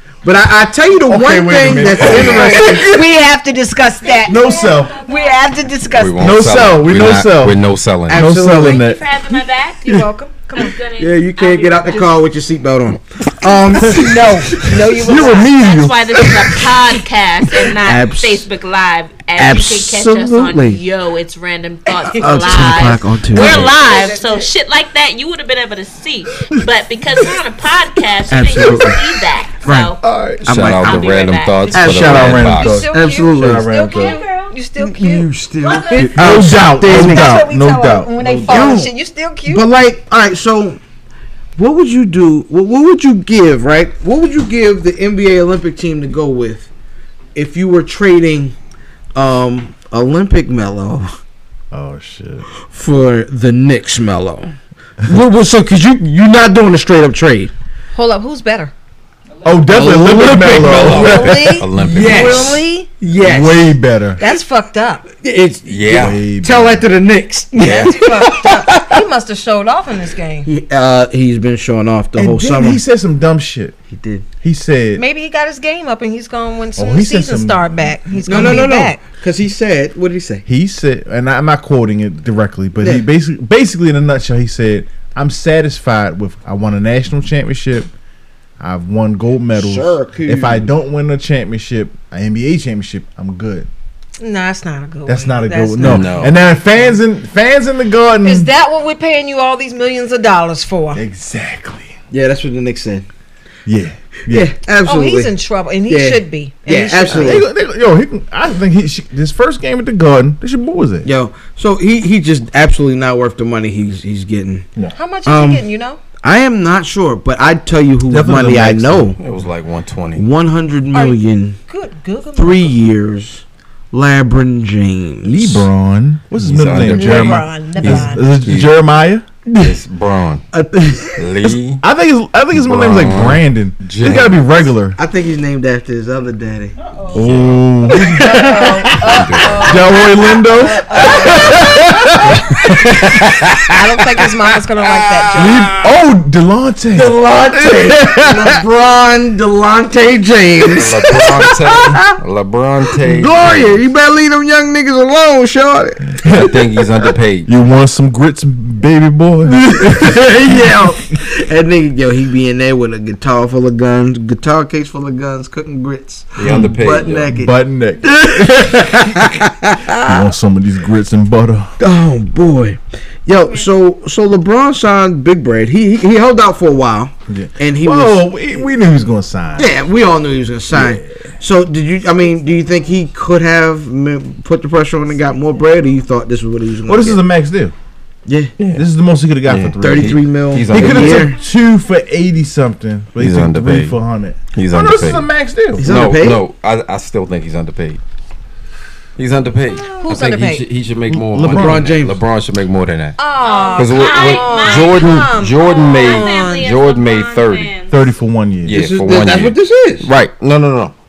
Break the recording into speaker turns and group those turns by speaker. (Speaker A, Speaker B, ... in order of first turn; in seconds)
Speaker A: 0.2-2.9, 8.1-8.8, 11.0-14.3, 17.8-18.4, 19.4-20.8, 22.0-23.8, 28.3-29.0, 29.6-31.1, 31.7-33.7, 34.8-37.4, 38.5-38.9, 39.4-40.8, 41.5-46.7, 47.3-48.5, 49.1-51.1, 52.7-54.5, 55.0-57.5, 59.7-63.7, 65.2-69.0, 70.4-72.8, 73.9-74.2, 78.2-80.4, 82.8-83.0, 89.5-90.7, 102.1-103.1, 104.3-105.3, 105.9-107.4, 111.0-114.7, 115.2-115.7, 116.2-119.2, 120.1-121.6, 122.3-125.7, 130.5-131.5, 134.9-136.8, 142.7-145.9, 146.9-152.1, 153.0-156.2, 159.5-170.3, 171.8-178.5, 179.6-187.2, 188.2-188.5, 189.8-191.4, 195.8-196.4, 201.5-202.2, 208.7-210.1
Speaker B: 1.0-3.1, 4.2-5.1, 6.2-9.0, 13.7-16.8, 30.0-30.6, 31.8-34.2, 35.9-38.8, 51.7-52.5, 59.4-62.4, 63.2-64.2, 65.9-66.9, 72.2-73.8, 74.4-75.0, 76.8-78.7, 80.5-87.9, 88.6-93.7, 95.1-98.5, 100.9-101.9, 103.7-104.5, 107.1-111.1, 118.1-119.1, 125.2-129.7, 131.8-135.0, 137.1-142.8, 145.3-148.6, 156.2-156.6, 157.4-160.8, 166.4-166.7, 167.3-169.4, 169.9-171.7, 177.3-179.7, 180.7-181.1, 186.8-187.7, 188.7-195.9, 201.1-201.9, 207.9-208.8
Speaker C: 2.0-2.6, 5.9-8.2, 30.4-32.8, 60.5-62.5, 65.7-66.2, 67.6-67.9, 95.8-96.3, 119.2-120.2, 126.4-128.7, 129.6-130.4, 131.2-131.8, 132.5-134.6, 137.1-137.7, 139.0-139.9, 150.7-153.8, 156.3-157.5, 166.3-167.3, 189.4-191.3, 193.2-193.9, 194.5-198.0, 199.2-203.2, 203.8-207.7, 208.6-210.9
Speaker D: 2.1-6.2, 9.8-10.8, 13.5-15.5, 23.4-24.4, 32.4-35.3, 36.8-39.6, 57.9-58.7, 61.0-62.9, 64.2-65.1, 67.6-70.5, 75.0-79.0, 94.2-96.3, 98.2-101.0, 104.8-107.3, 114.9-116.0, 120.9-122.7, 126.8-128.2, 138.1-142.1, 143.7-145.7, 199.8-200.6, 203.2-206.7
Speaker E: 4.0-5.4, 8.6-12.2, 15.2-30.0, 30.8-31.7, 33.9-34.5, 35.6-36.3, 203.4-207.9